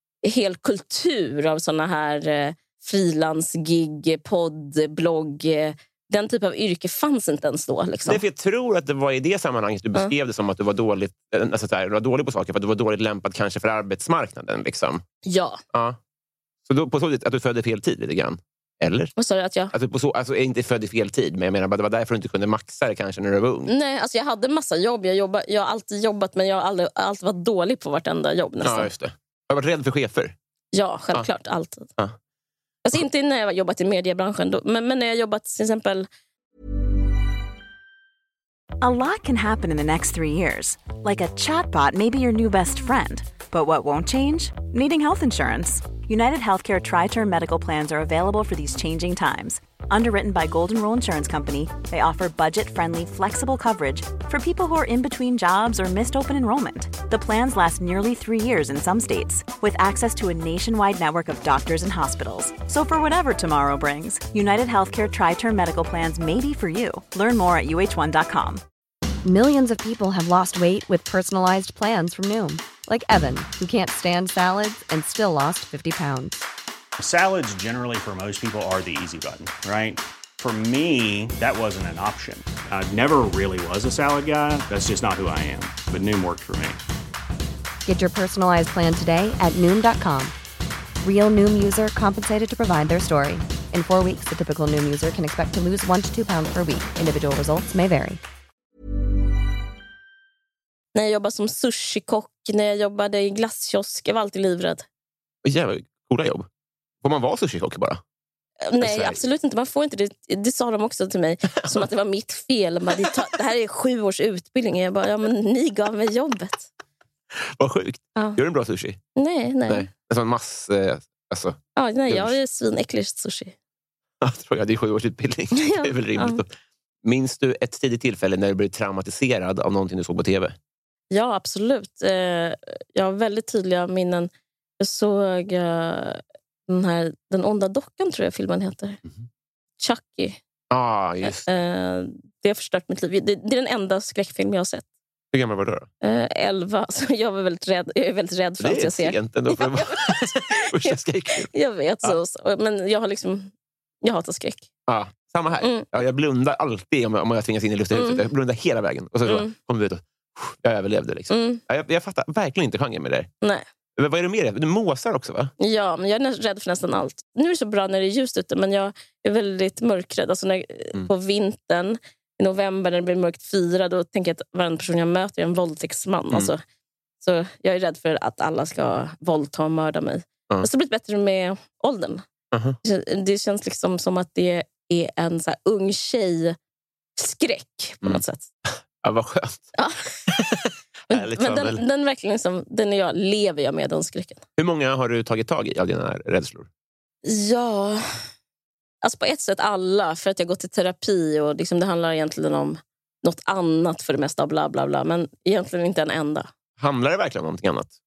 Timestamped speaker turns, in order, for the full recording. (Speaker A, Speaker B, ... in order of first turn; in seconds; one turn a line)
Speaker A: 0.2-8.2
Speaker B: 8.1-15.0
Speaker A: 15.2-15.6
Speaker B: 16.6-19.1
Speaker A: 19.2-19.7
Speaker B: 19.7-23.7
Speaker A: 23.7-28.9
Speaker B: 28.6-30.3
Speaker A: 30.7-31.9
Speaker A: 32.8-36.1
Speaker C: 38.8-68.6
Speaker D: 69.2-76.5
Speaker E: 77.0-86.8
Speaker D: 87.8-90.3
Speaker D: 91.0-98.2
Speaker A: 100.9-104.9
Speaker B: 105.4-106.5
Speaker B: 107.0-108.0
Speaker A: 108.6-116.7
Speaker B: 108.8-109.2
Speaker B: 117.4-119.0
Speaker A: 119.2-119.9
Speaker B: 119.7-121.6
Speaker A: 121.8-123.5
Speaker B: 122.1-122.3
Speaker B: 124.2-126.5
Speaker A: 125.5-126.4
Speaker B: 127.0-130.6
Speaker A: 131.1-139.0
Speaker A: 139.8-140.4
Speaker B: 140.7-141.5
Speaker A: 141.2-144.8
Speaker B: 145.3-145.9
Speaker A: 146.0-153.5
Speaker B: 148.6-151.5
Speaker A: 154.0-154.7
Speaker B: 154.9-163.3
Speaker A: 155.6-155.9
Speaker A: 157.9-158.2
Speaker A: 159.2-159.5
Speaker A: 161.3-161.6
Speaker B: 164.0-165.5
Speaker A: 165.6-176.6
Speaker A: 177.2-182.2
Speaker B: 182.5-182.8
Speaker A: 182.8-186.6
Speaker A: 187.2-188.4
Speaker B: 188.0-189.7
Speaker A: 189.8-190.1
Speaker B: 190.3-191.8
Speaker A: 191.1-194.4
Speaker B: 194.6-196.7
Speaker A: 197.2-198.0
Speaker A: 199.0-206.5
Speaker B: 206.8-207.9